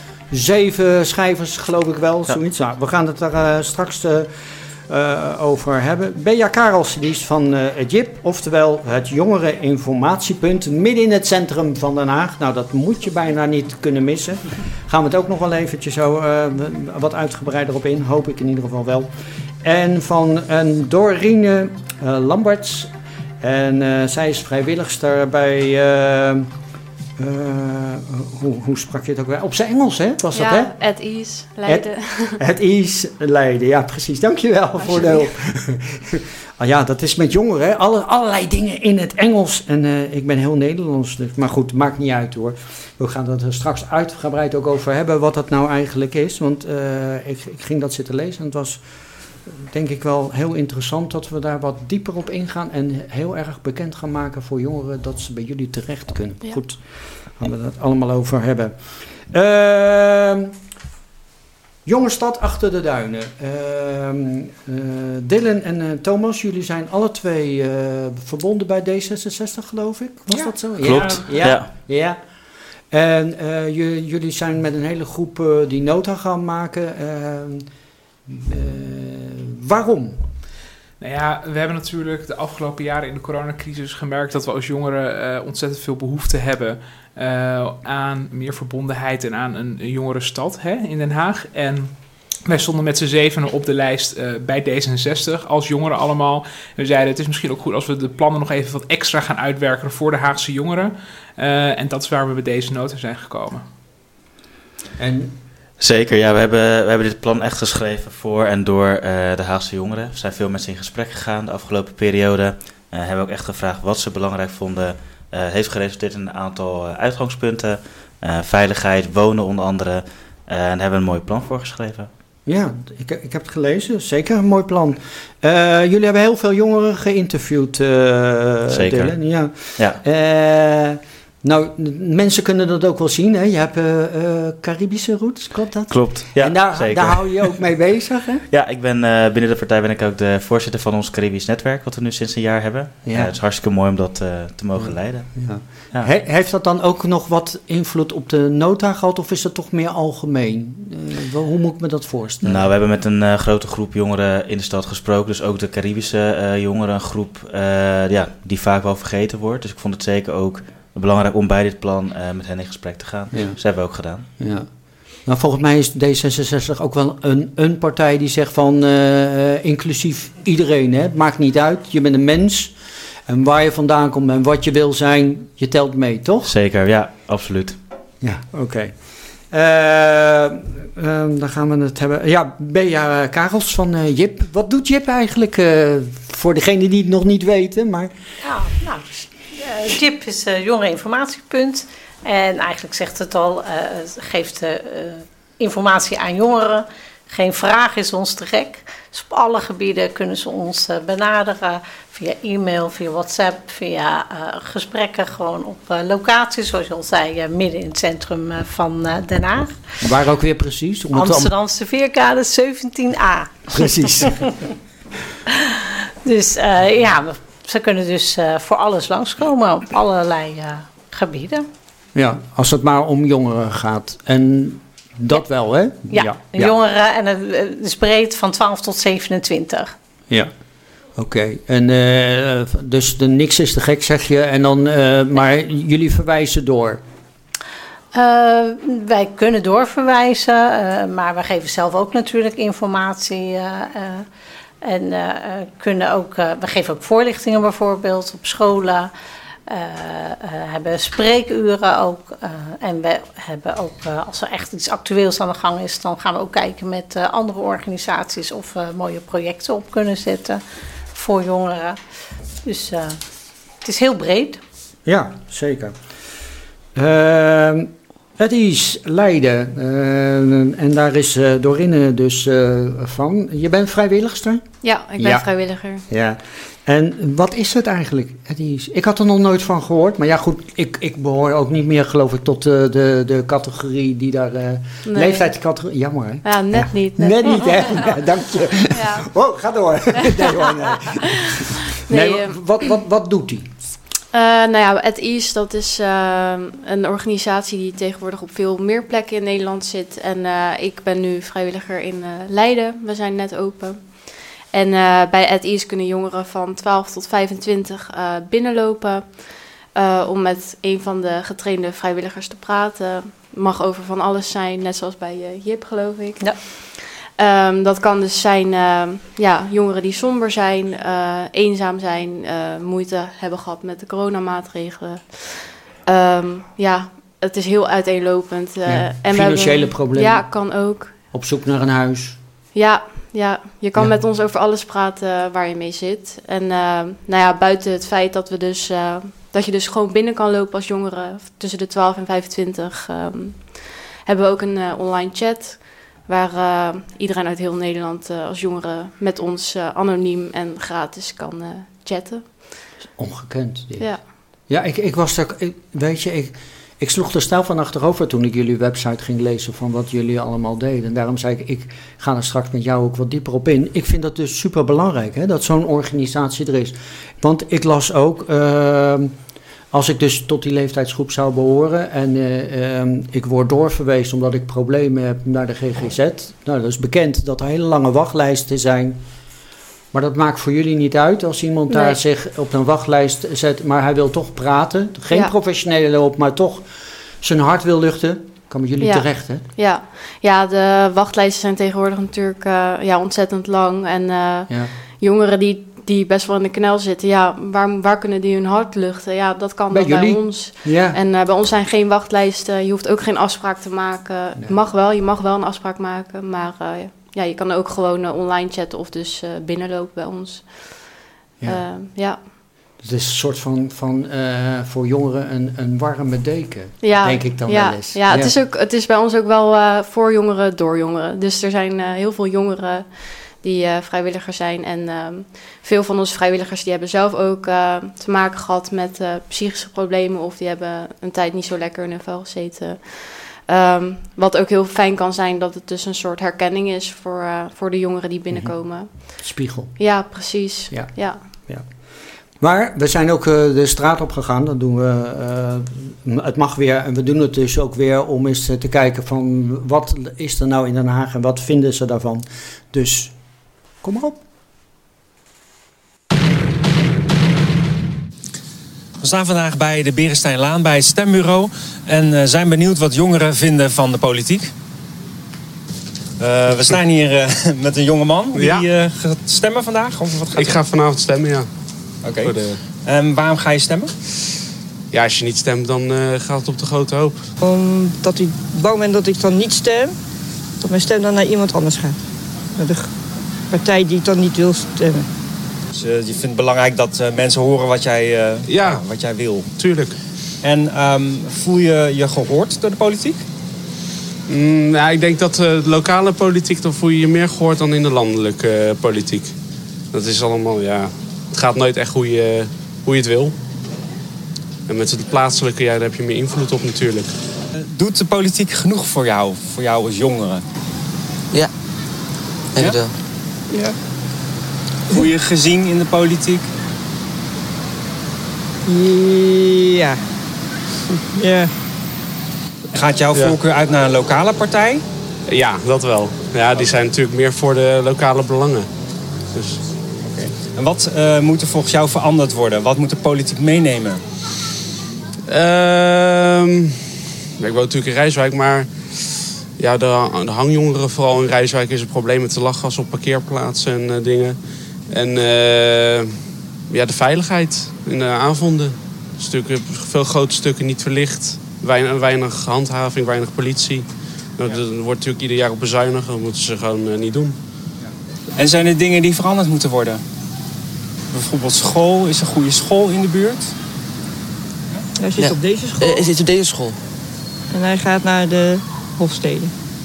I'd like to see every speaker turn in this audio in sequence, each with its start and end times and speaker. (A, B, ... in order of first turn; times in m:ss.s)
0:00.3-0:04.3 A
0:04.9-0:19.1 A
0:19.6-0:26.5 A
0:27.2-0:30.7 A
0:30.3-0:32.4 B
0:31.6-0:48.8 A
0:34.8-0:35.3 B
0:49.4-1:00.5 A
1:01.8-1:12.2 A
1:10.3-1:11.3 C
1:10.8-1:11.7 D
1:12.9-1:17.7 A
1:18.2-1:20.3 A
1:21.0-1:43.6 C
1:45.0-1:45.3 A
1:45.8-2:02.1 D
2:02.4-2:18.4 A
2:08.7-2:10.0 D
2:15.9-2:17.6 D
2:18.5-2:26.1 D
2:23.0-2:23.3 A
2:24.8-2:32.7 A
2:32.4-2:44.2 D
2:43.3-2:52.8 A
2:53.3-2:56.5 A
2:56.4-2:57.8 D
2:58.2-3:08.1 A
3:08.4-3:29.8 E
3:30.0-3:31.5 A
3:31.1-3:34.3 E
3:33.8-3:34.5 A
3:36.2-3:41.6 E
3:42.1-3:46.7 A
3:46.1-3:49.9 E
3:51.1-3:57.0 A
3:58.1-4:04.2 E
4:04.8-4:09.1 E
4:09.7-4:20.6 E
4:21.1-4:22.0 E
4:22.6-4:23.2 E
4:23.8-4:24.6 E
4:25.0-4:26.0 A
4:26.9-4:35.5 A
4:34.8-4:36.0 B
4:36.0-4:51.6 A
4:45.0-4:45.5 B
4:46.4-4:48.1 B
4:48.9-4:49.3 B
4:52.0-4:52.6 B
4:52.1-4:53.7 A
4:54.3-5:31.2 B
5:28.8-5:32.4 A
5:32.7-5:52.9 B
5:53.2-6:09.3 A
5:54.0-5:54.2 B
6:09.9-6:19.2 A
6:20.1-6:26.9 A
6:27.4-6:29.6 A
6:29.0-6:52.5 B
6:39.9-6:41.2 A
6:53.0-6:58.5 A
6:57.0-7:21.5 B
7:18.5-7:34.4 A
7:39.2-7:44.7 F
7:46.4-7:50.8 F
7:46.7-7:47.0 G
7:48.5-7:49.3 G
7:50.2-7:51.7 G
7:52.2-7:54.1 F
7:52.3-7:52.8 G
7:55.1-7:57.5 G
7:57.6-8:00.2 H
8:00.8-8:05.3 H
8:05.9-8:09.7 F
8:08.6-8:09.0 G
8:09.8-8:10.1 G
8:10.6-8:13.4 F
8:14.5-8:19.6 G
8:20.1-8:23.5 G
8:24.9-8:27.3 G
8:27.8-8:30.6 F
8:32.7-8:33.2 I
8:33.7-8:34.0 H
8:35.1-8:36.7 F
8:38.8-8:40.2 H
8:41.3-8:41.7 H
8:42.9-8:45.0 F
8:45.5-8:48.9 G
8:49.5-8:49.8 G
8:50.2-8:54.2 F
8:55.5-8:57.0 G
8:57.6-9:17.6 G
9:18.0-9:20.2 F
9:21.3-9:23.7 F
9:25.2-9:26.3 H
9:25.4-9:27.0 I
9:27.7-9:29.7 H